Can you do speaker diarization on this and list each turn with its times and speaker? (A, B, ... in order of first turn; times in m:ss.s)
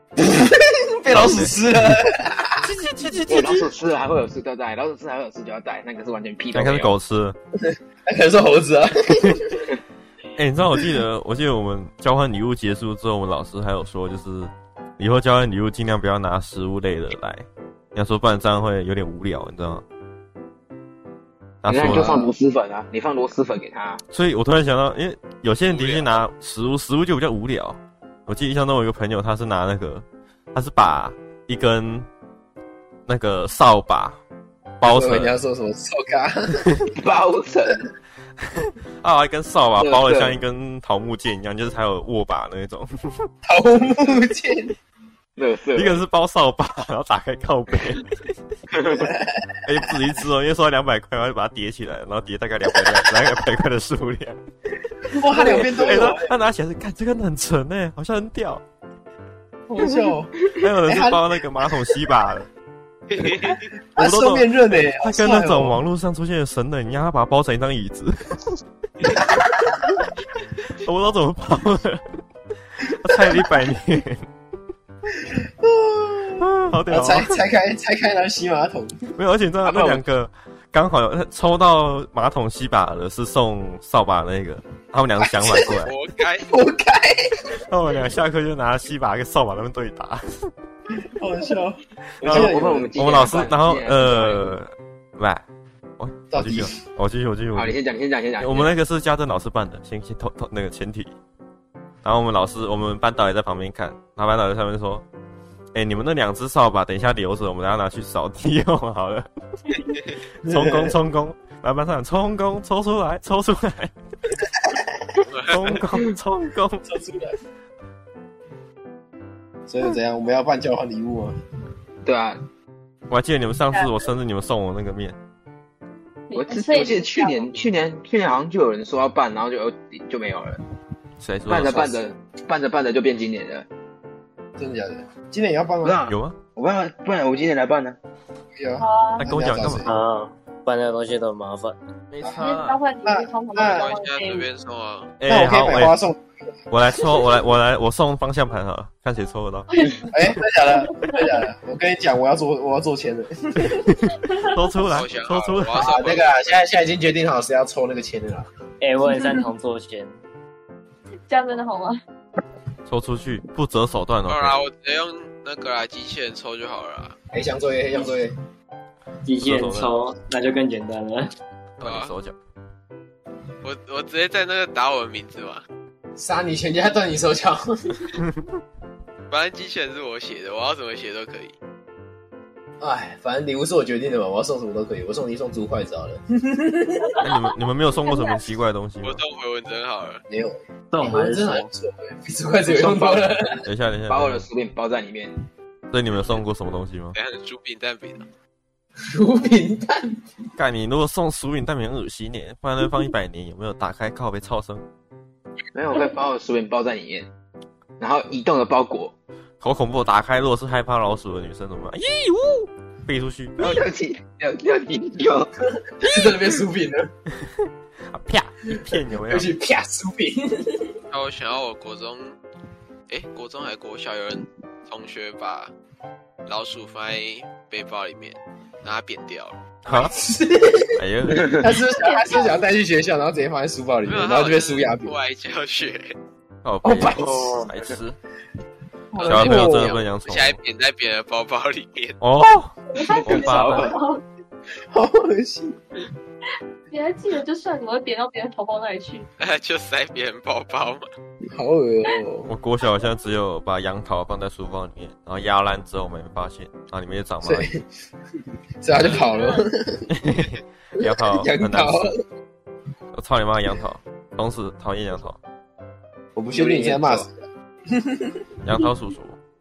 0:00.2-0:02.6 A
0:01.1-0:01.6 B
0:02.6-0:03.7 B
0:03.3-0:07.0 C
0:06.5-0:07.4 B
0:07.6-0:09.7 A
0:10.4-0:19.8 B
0:21.6-0:22.2 B
0:21.7-0:24.0 C
0:21.8-0:22.3 A
0:24.1-0:32.1 B
0:25.7-0:26.2 D
0:33.1-0:34.2 B
0:34.8-0:35.4 B
0:34.8-0:36.7 A
0:36.9-0:37.9 C
0:38.6-0:42.9 B
0:39.8-0:40.4 C
0:43.4-0:44.8 A
0:45.4-0:46.0 C
0:45.8-0:48.1 B
0:48.7-0:49.1 C
0:49.0-0:49.4 A
0:49.6-0:54.4 B
0:55.1-0:56.3 A
0:55.3-0:58.6 B
0:55.4-0:56.0 C
0:59.7-1:01.4 A
1:00.6-1:02.5 B
1:03.1-1:03.6 D
1:03.2-1:05.8 A
1:04.0-1:08.4 B
1:09.1-1:09.9 A
1:10.8-1:12.0 B
1:13.0-1:14.3 B
1:13.1-1:13.5 A
1:15.2-1:19.0 A
1:16.4-1:17.4 B
1:19.2-1:25.9 B
1:19.7-1:20.0 C
1:25.2-1:25.8 A
1:25.7-1:26.5 D
1:26.4-1:27.5 A
1:27.7-1:30.5 B
1:31.0-1:33.4 A
1:32.2-1:35.4 B
1:32.2-1:34.5 C
1:36.0-1:37.8 B
1:36.3-1:36.7 A
1:37.6-1:38.7 C
1:38.4-1:41.1 B
1:42.0-1:45.0 B
1:45.7-1:49.3 B
1:50.4-1:51.0 A
1:50.4-1:53.9 B
1:54.6-1:55.2 A
1:55.3-1:55.8 D
1:55.5-1:56.9 B
1:56.9-1:57.4 A
1:59.7-2:01.4 A
2:02.0-2:02.4 C
2:03.1-2:05.2 B
2:06.3-2:07.6 E
2:06.4-2:10.6 C
2:11.2-2:12.0 B
2:11.5-2:13.7 C
2:14.6-2:16.0 A
2:15.8-2:18.0 C
2:16.1-2:16.4 B
2:18.6-2:20.0 A
2:18.8-2:19.3 E
2:19.2-2:19.9 B
2:19.8-2:21.8 F
2:22.1-2:22.8 B
2:22.4-2:24.5 E
2:23.0-2:23.9 A
2:23.6-2:25.1 D
2:25.2-2:26.0 B
2:25.3-2:26.3 A
2:26.7-2:29.7 B
2:29.7-2:30.1 E
2:30.1-2:34.0 A
2:30.7-2:31.4 E
2:33.7-2:35.9 B
2:34.9-2:36.7 D
2:35.8-2:38.5 A
2:38.8-2:40.1 F
2:41.3-2:42.0 E
2:42.9-2:44.6 B
2:44.3-2:47.2 D
2:47.3-2:48.4 A
2:49.2-2:51.3 F
2:49.4-2:49.9 B
2:51.8-2:52.4 B
2:51.8-2:52.1 D
2:53.6-2:55.6 D
2:56.2-2:58.0 A
2:59.3-3:01.6 D
3:02.8-3:07.2 A
3:07.2-3:09.2 B
3:08.0-3:08.4 E
3:09.0-3:10.2 D
3:10.3-3:13.6 A
3:10.9-3:11.7 F
3:12.7-3:13.3 C
3:13.6-3:14.5 B
3:14.1-3:15.3 C
3:15.9-3:17.2 B
3:17.2-3:18.3 D
3:19.0-3:20.2 A
3:20.6-3:24.8 B
3:25.7-3:27.3 C
3:28.0-3:29.1 C
3:29.6-3:33.8 B
3:33.6-3:35.6 C
3:36.0-3:37.1 A
3:38.1-3:39.5 B
3:39.3-3:41.0 A
3:41.1-3:42.4 D
3:43.1-3:45.7 D
3:46.5-3:49.6 D
3:49.8-3:50.1 B
3:49.9-3:51.0 A
3:51.0-3:51.7 B
3:51.4-3:51.7 C
3:51.6-3:55.2 A
3:52.0-3:52.6 E
3:54.0-3:56.1 D
3:56.6-3:58.2 B
3:56.8-3:57.7 A
3:57.1-3:57.7 C
3:59.1-4:00.0 A
3:59.2-4:02.2 D
3:59.2-4:00.6 B
4:02.2-4:04.0 B
4:03.0-4:04.2 E
4:03.0-4:04.0 C
4:04.9-4:05.8 A
4:06.9-4:09.3 E
4:09.4-4:11.1 D
4:11.5-4:12.5 A
4:12.5-4:17.7 B
4:17.4-4:17.8 A
4:18.8-4:20.1 A
4:19.2-4:19.6 E
4:20.1-4:22.1 B
4:21.0-4:22.1 A
4:23.1-4:25.4 B
4:26.4-4:28.4 A
4:26.5-4:27.3 C
4:28.6-4:29.4 B